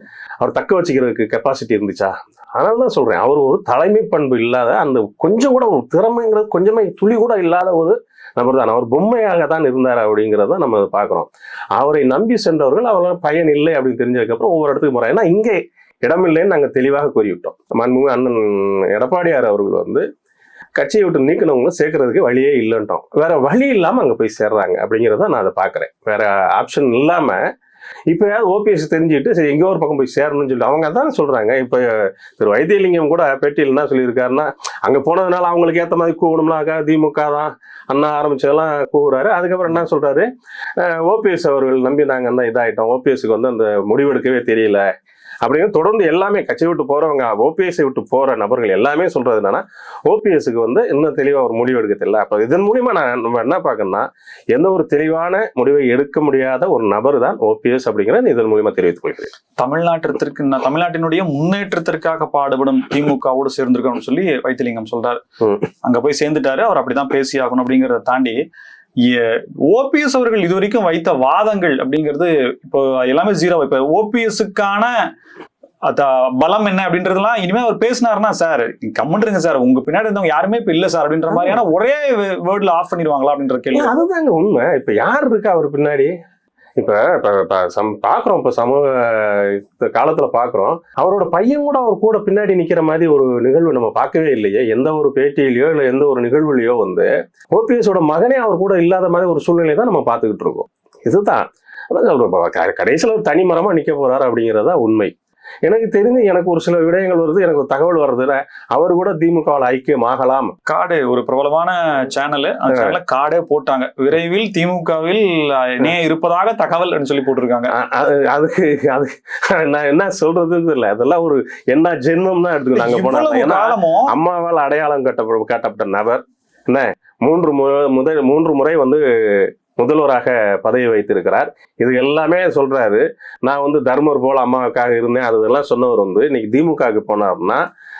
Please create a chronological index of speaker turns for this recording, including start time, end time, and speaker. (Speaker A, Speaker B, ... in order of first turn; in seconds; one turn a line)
Speaker A: 0.4-20.1
Speaker A: 20.8-27.4
Speaker A: 28.1-44.9
Speaker A: 45.4-59.3
Speaker B: 59.6-65.2
Speaker B: 65.8-68.4
Speaker B: 69.0-75.1
Speaker B: 75.8-84.0
Speaker A: 81.3-81.6
Speaker A: 83.7-86.1
Speaker A: 86.8-105.1
Speaker A: 105.7-110.5
Speaker B: 110.7-117.7
Speaker A: 117.7-137.6
Speaker B: 122.7-124.1